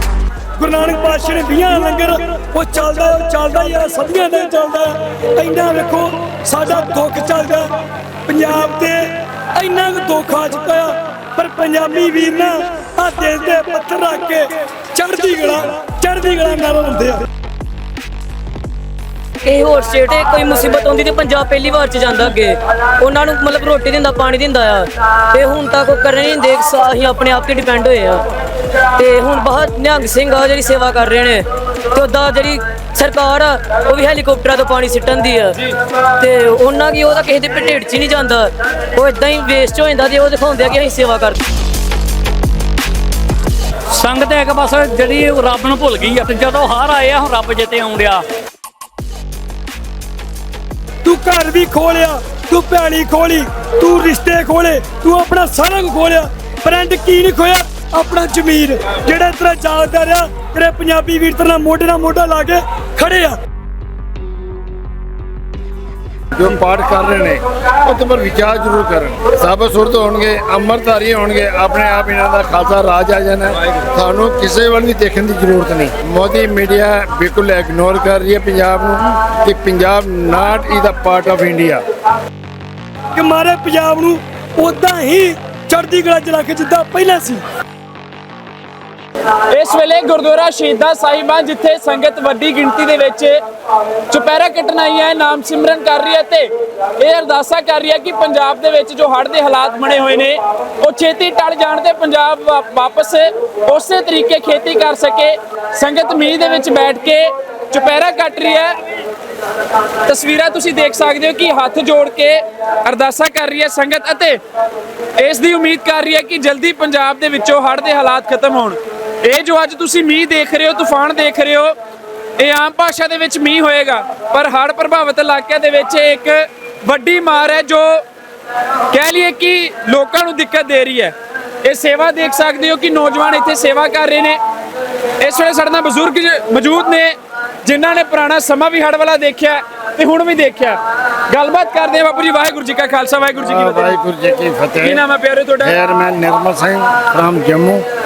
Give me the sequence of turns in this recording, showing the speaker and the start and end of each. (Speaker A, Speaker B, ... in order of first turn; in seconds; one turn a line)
Speaker A: 0.6-7.7
Speaker A: 8.3-17.3
Speaker B: 19.4-28.3
Speaker B: 29.0-35.6
Speaker B: 36.2-41.4
Speaker C: 43.9-48.2
Speaker A: 51.0-63.4
Speaker D: 66.3-81.8
Speaker A: 83.2-87.4
Speaker E: 89.5-93.4
Speaker E: 94.1-108.8
Speaker E: 110.1-114.4
Speaker E: 115.2-121.8
Speaker E: 122.4-128.0
Speaker E: 128.9-134.4
Speaker E: 135.2-140.8
Speaker E: 141.3-143.9
Speaker D: 143.4-145.0
Speaker E: 144.8-145.7
Speaker D: 145.6-147.8